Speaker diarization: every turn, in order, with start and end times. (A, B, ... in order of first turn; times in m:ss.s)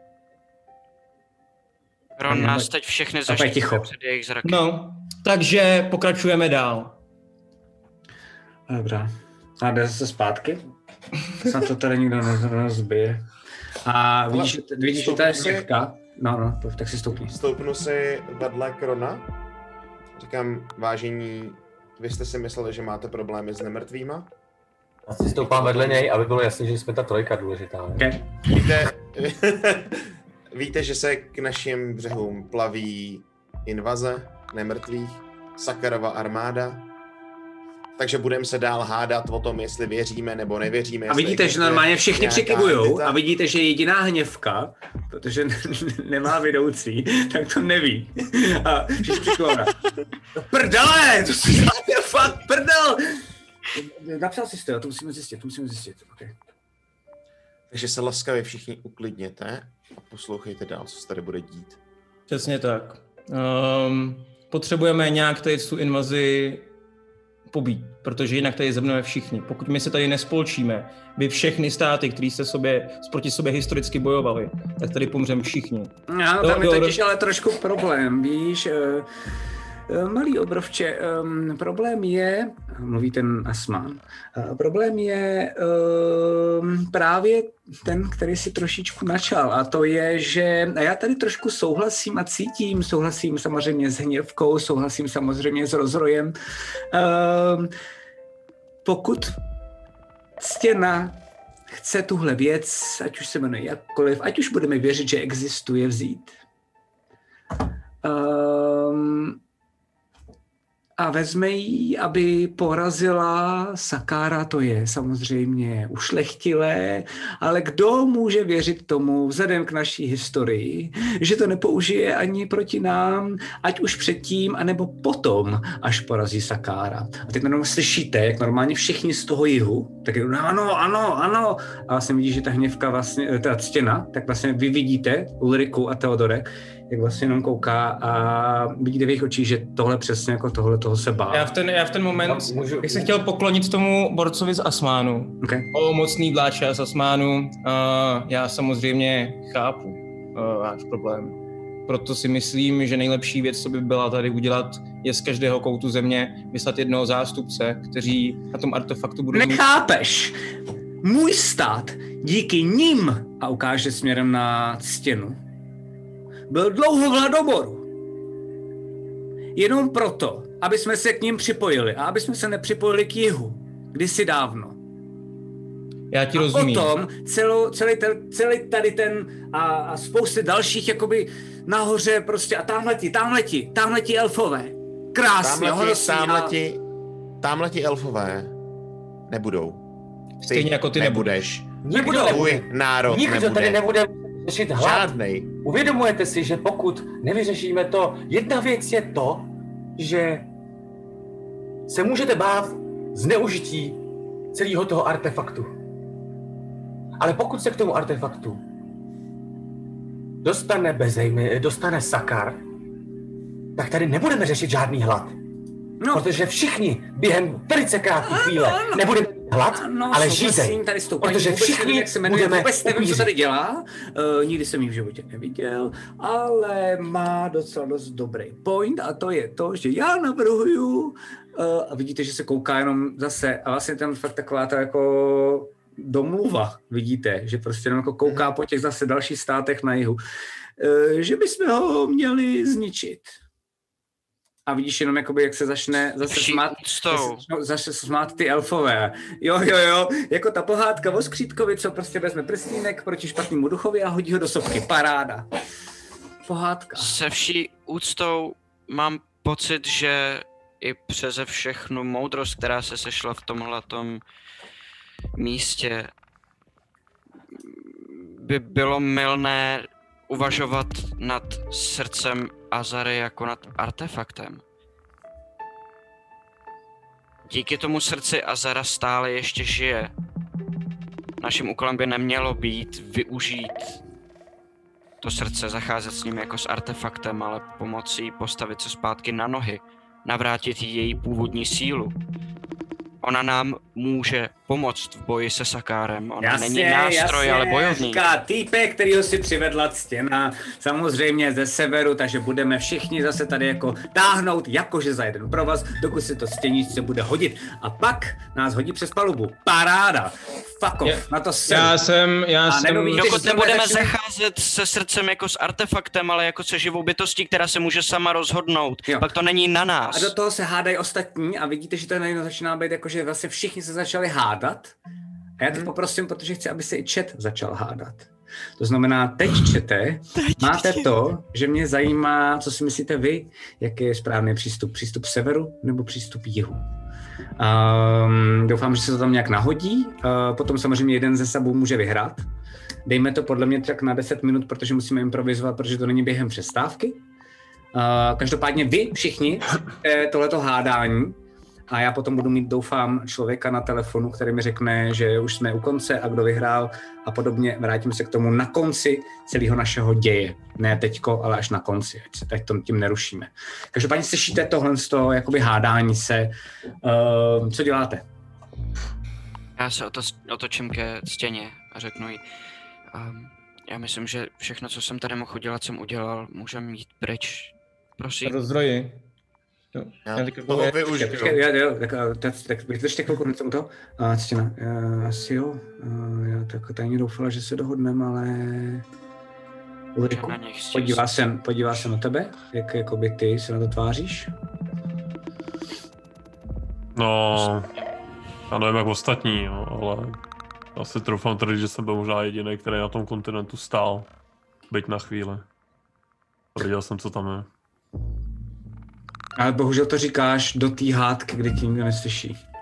0:02.2-0:04.6 A
0:02.3-0:02.7 B
0:03.3-0:03.9 B
0:04.4-0:07.0 C
0:08.7-0:10.6 B
0:11.4-0:13.2 B
0:13.8-0:17.4 B
0:14.3-0:15.7 D
0:17.3-0:19.3 D
0:20.2-0:24.3 D
0:25.1-0:28.1 E
0:25.4-0:26.1 D
0:28.0-0:28.2 B
0:28.4-0:36.8 D
0:38.0-0:43.2 D
0:41.1-0:49.8 B
0:50.4-0:53.2 B
0:53.7-0:56.3 B
0:57.7-1:01.8 D
1:02.3-1:06.7 C
1:07.5-1:17.0 C
1:16.1-1:19.1 B
1:19.9-1:36.3 B
1:36.9-1:37.7 B
1:38.8-1:39.4 B
1:40.4-1:41.2 B
1:41.7-1:46.4 B
1:48.0-1:49.4 B
1:51.0-2:21.5 B
2:21.3-2:31.4 C
2:22.1-2:23.2 E
2:25.4-2:25.7 B
2:31.9-2:39.6 C
2:39.3-2:40.4 B
2:41.0-2:45.4 B
2:46.5-2:47.8 B
2:49.6-2:54.8 B
2:56.1-2:56.9 C
2:56.3-3:06.6 B
3:05.4-3:06.8 D
3:07.4-3:08.5 D
3:09.3-3:09.8 D
3:10.4-3:11.6 C
3:10.4-3:13.8 D
3:11.8-3:20.5 E
3:14.8-3:15.5 D
3:21.9-3:24.0 E
3:24.5-3:25.7 E
3:27.2-3:28.6 E
3:30.4-3:32.6 E
3:33.7-3:35.4 E
3:36.0-3:36.3 B
3:36.1-3:43.3 E
3:38.3-4:00.2 B
4:00.8-4:03.4 B
4:04.6-4:15.4 B
4:06.3-4:07.4 A
4:16.4-4:17.1 B
4:17.0-4:24.2 A
4:25.3-4:26.1 A
4:27.5-4:34.6 A
4:37.5-4:40.1 A
4:41.4-4:44.0 A
4:45.2-4:52.2 A
4:53.2-4:58.2 A
4:56.4-5:12.0 B
5:11.0-5:13.4 C
5:12.7-5:14.1 B
5:13.2-5:20.3 A
5:20.1-5:24.9 B
5:25.6-5:36.8 B
5:30.4-5:31.1 A
5:37.6-5:42.4 B
5:43.0-5:47.2 B
5:47.9-5:51.4 B
5:51.9-6:08.2 B
6:09.8-6:12.4 A
6:13.1-6:18.6 A
6:18.4-6:19.2 C
6:19.9-6:21.4 C
6:20.3-6:21.6 D
6:21.1-6:29.0 B
6:30.1-6:34.5 B
6:30.3-6:31.2 A
6:37.1-6:37.9 F
6:37.6-6:38.1 A
6:38.7-6:40.4 F
6:40.9-6:44.3 F
6:44.9-6:45.6 F
6:46.8-6:47.7 F
6:49.6-6:52.6 B